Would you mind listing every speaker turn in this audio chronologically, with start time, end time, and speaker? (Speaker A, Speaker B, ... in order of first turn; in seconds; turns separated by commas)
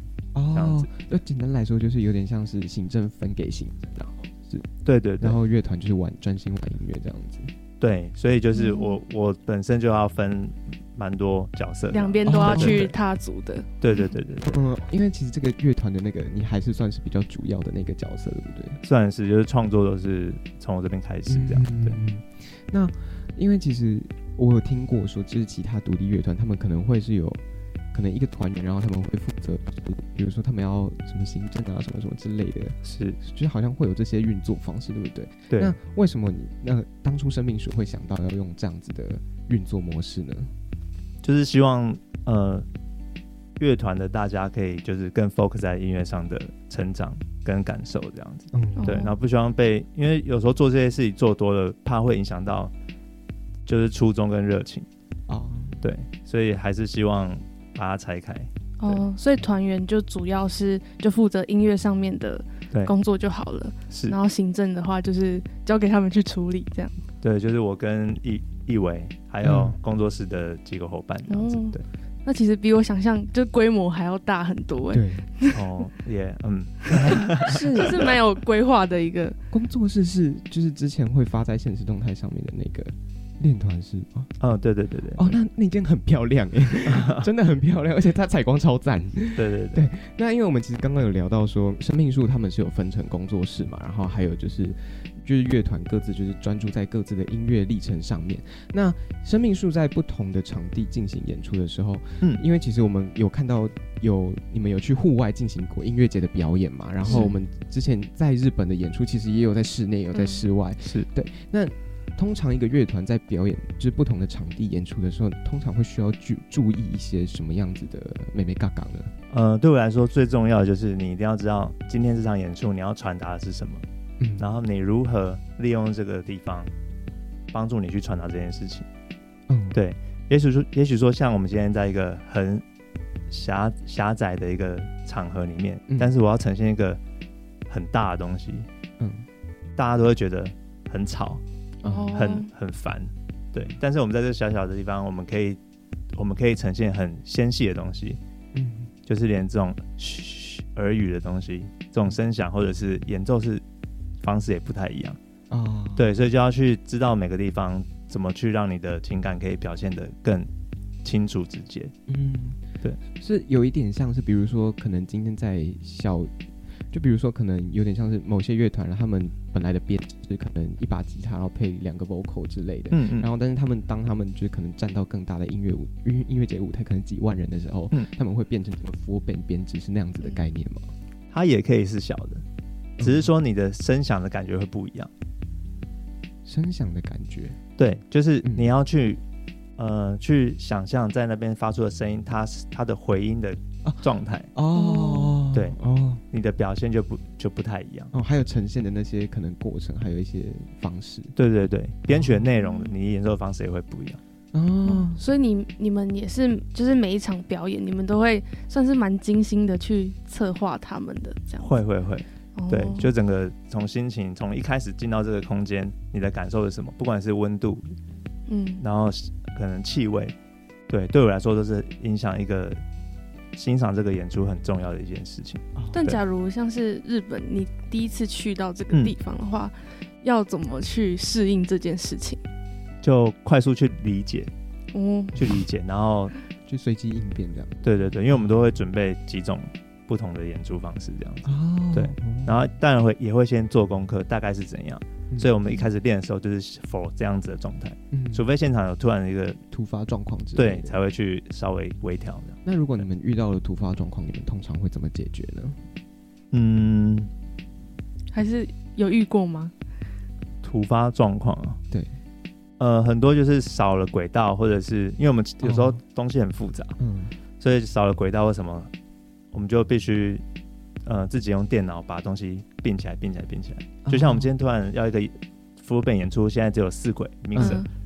Speaker A: 0.3-4.7, Speaker B: 0.5-0.9, Speaker B: 4.8-5.4, Speaker A: 5.2-7.5, Speaker B: 7.8-12.9, Speaker C: 8.5-9.0, Speaker C: 11.9-13.7, Speaker A: 12.3-12.9, Speaker B: 13.8-14.6, Speaker A: 14.4-18.8, Speaker B: 18.8-22.0, Speaker A: 21.3-27.4, Speaker A: 27.9-40.5, Speaker B: 32.8-33.2, Speaker B: 35.5-35.8, Speaker B: 41.2-42.7, Speaker B: 43.6-52.7, Speaker A: 48.5-49.0, Speaker C: 48.8-49.1, Speaker B: 53.7-54.9, Speaker A: 55.3-55.8, Speaker B: 55.8-59.0, Speaker C: 58.8-66.9, Speaker B: 63.9-64.2, Speaker B: 67.2-71.8, Speaker A: 69.4-69.8, Speaker C: 71.3-75.7, Speaker A: 74.9-75.3, Speaker B: 75.5-78.1, Speaker A: 76.9-78.0, Speaker C: 77.1-79.4, Speaker A: 79.5-84.3, Speaker B: 84.4-85.4, Speaker A: 85.1-119.1, Speaker B: 86.9-87.2, Speaker B: 89.3-89.9, Speaker C: 107.1-107.4, Speaker C: 110.1-110.4, Speaker B: 110.8-111.1, Speaker B: 119.3-123.8, Speaker A: 124.2-124.5, Speaker B: 124.4-126.7, Speaker B: 127.5-128.9, Speaker A: 129.5-129.8, Speaker B: 129.7-132.6, Speaker B: 133.3-137.0, Speaker A: 135.9-136.2, Speaker B: 137.7-138.7, Speaker A: 139.0-139.3, Speaker B: 139.8-141.4, Speaker A: 141.8-142.2, Speaker C: 141.8-142.5, Speaker B: 142.1-145.6, Speaker B: 146.2-148.2, Speaker A: 148.5-148.9, Speaker B: 149.1-153.6, Speaker B: 154.2-155.2, Speaker A: 155.5-156.1, Speaker B: 156.0-160.5, Speaker B: 161.0-161.9, Speaker A: 162.1-166.3, Speaker A: 166.9-180.9, Speaker B: 172.9-173.3, Speaker B: 181.3-182.4, Speaker A: 183.0-183.3, Speaker B: 183.0-185.1, Speaker A: 186.5-187.6, Speaker B: 187.8-189.2, Speaker A: 188.4-188.7, Speaker B: 189.8-194.5, Speaker A: 193.8-196.2, Speaker C: 194.8-195.4, Speaker B: 196.3-198.1, Speaker A: 198.1-201.3, Speaker B: 201.4-204.2, Speaker A: 202.1-202.5, Speaker C: 202.6-202.9, Speaker A: 204.5-205.2, Speaker C: 204.8-211.8, Speaker B: 211.6-218.0, Speaker C: 212.6-213.1, Speaker C: 218.5-218.8, Speaker B: 218.8-220.3, Speaker B: 220.9-222.8, Speaker B: 223.5-226.2, Speaker A: 225.8-226.1, Speaker C: 225.9-232.4, Speaker B: 233.0-234.5, Speaker C: 234.9-235.5, Speaker B: 235.4-236.3, Speaker A: 236.7-238.5, Speaker B: 237.8-249.6, Speaker A: 241.4-242.6, Speaker A: 248.1-248.5, Speaker A: 249.7-251.0, Speaker B: 250.6-253.1, Speaker A: 252.6-255.8, Speaker B: 256.5-257.3, Speaker C: 258.3-259.7, Speaker B: 260.6-261.8, Speaker B: 262.8-267.0, Speaker A: 265.6-266.0, Speaker A: 267.0-267.4, Speaker B: 267.6-268.9, Speaker B: 269.5-270.4, Speaker B: 271.1-277.9, Speaker A: 274.1-274.5, Speaker A: 277.6-277.8, Speaker C: 277.6-277.9